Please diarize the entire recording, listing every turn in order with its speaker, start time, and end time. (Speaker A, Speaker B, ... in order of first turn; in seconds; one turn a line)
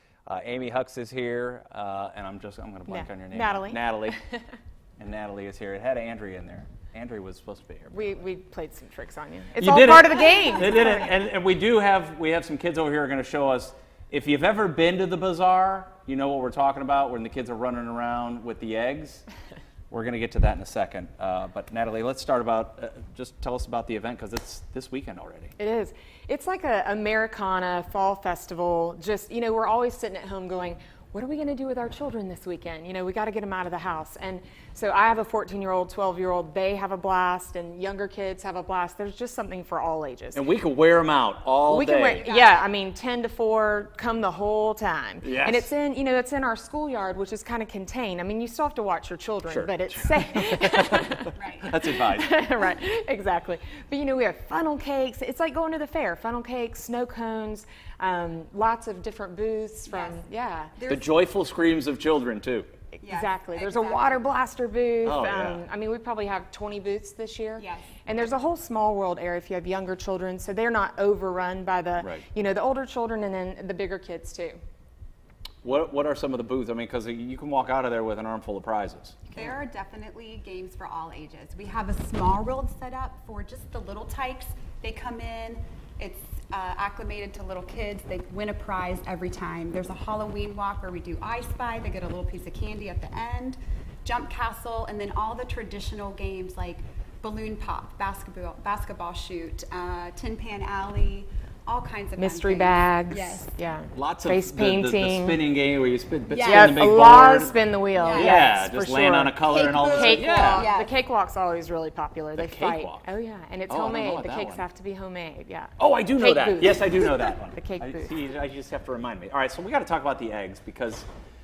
Speaker A: 0.2-4.2
Speaker B: 2.9-3.8
Speaker A: 5.0-8.2
Speaker B: 7.9-11.2
Speaker A: 9.5-19.2
Speaker A: 19.9-25.5
Speaker B: 25.6-40.4
Speaker A: 40.3-42.2
Speaker B: 41.6-60.7
Speaker C: 42.2-42.6
Speaker A: 45.2-45.7
Speaker A: 49.5-52.3
Speaker C: 51.4-51.7
Speaker C: 59.9-60.2
Speaker C: 60.7-61.1
Speaker A: 60.9-62.7
Speaker B: 63.0-74.6
Speaker C: 63.0-64.3
Speaker A: 65.0-65.6
Speaker C: 67.6-67.9
Speaker A: 72.0-72.2
Speaker A: 75.6-79.2
Speaker B: 79.3-79.6
Speaker C: 79.3-103.5
Speaker B: 102.2-105.4
Speaker A: 103.9-107.6
Speaker C: 106.3-106.8
Speaker B: 106.4-118.1
Speaker C: 107.9-108.5
Speaker A: 108.1-110.7
Speaker C: 109.4-110.9
Speaker A: 112.3-113.1
Speaker A: 113.7-114.6
Speaker A: 115.8-121.1